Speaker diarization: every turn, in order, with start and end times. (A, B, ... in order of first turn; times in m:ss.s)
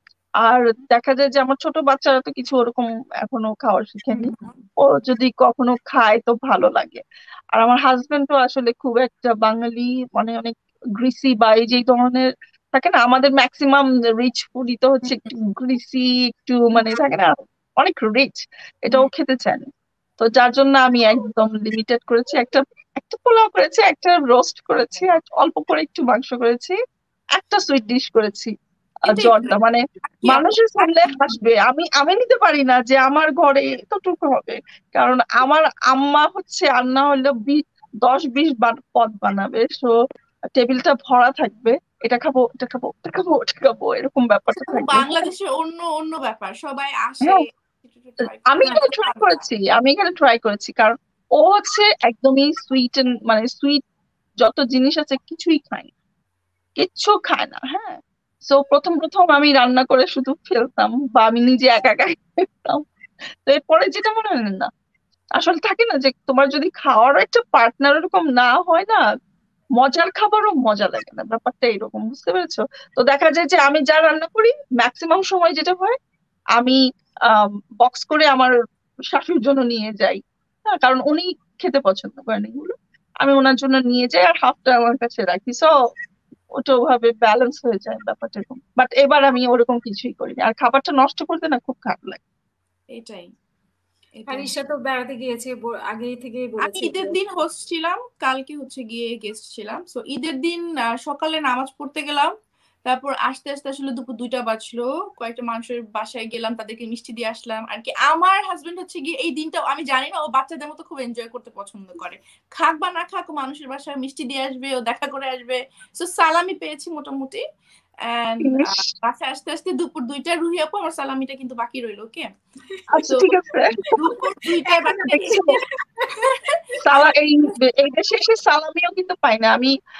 0:00.4-0:07.0 A
0:04.1-0:04.6 B
0:07.6-0:19.6 A
0:20.2-0:26.8 A
0:27.4-0:28.5 A
0:29.0-0:39.9 A
0:29.1-0:29.6 B
0:30.1-0:31.1 B
0:40.6-0:45.3 A
0:44.6-0:49.5 B
0:48.2-0:53.8 A
0:54.4-0:55.9 A
0:56.8-1:02.8 A
1:03.5-1:04.7 A
1:05.4-1:09.0 A
1:09.8-1:16.0 A
1:16.6-1:18.5 A
1:19.1-1:25.7 A
1:26.6-1:32.2 A
1:33.0-1:33.3 B
1:34.2-1:34.5 B
1:34.3-1:37.2 C
1:36.6-1:42.3 B
1:42.9-1:57.4 B
1:58.1-2:02.3 B
1:58.4-1:58.8 A
2:02.9-2:04.0 A
2:03.0-2:03.3 B
2:03.9-2:05.6 B
2:04.6-2:06.3 C
2:05.1-2:05.5 A
2:06.2-2:06.5 B
2:06.8-2:09.7 A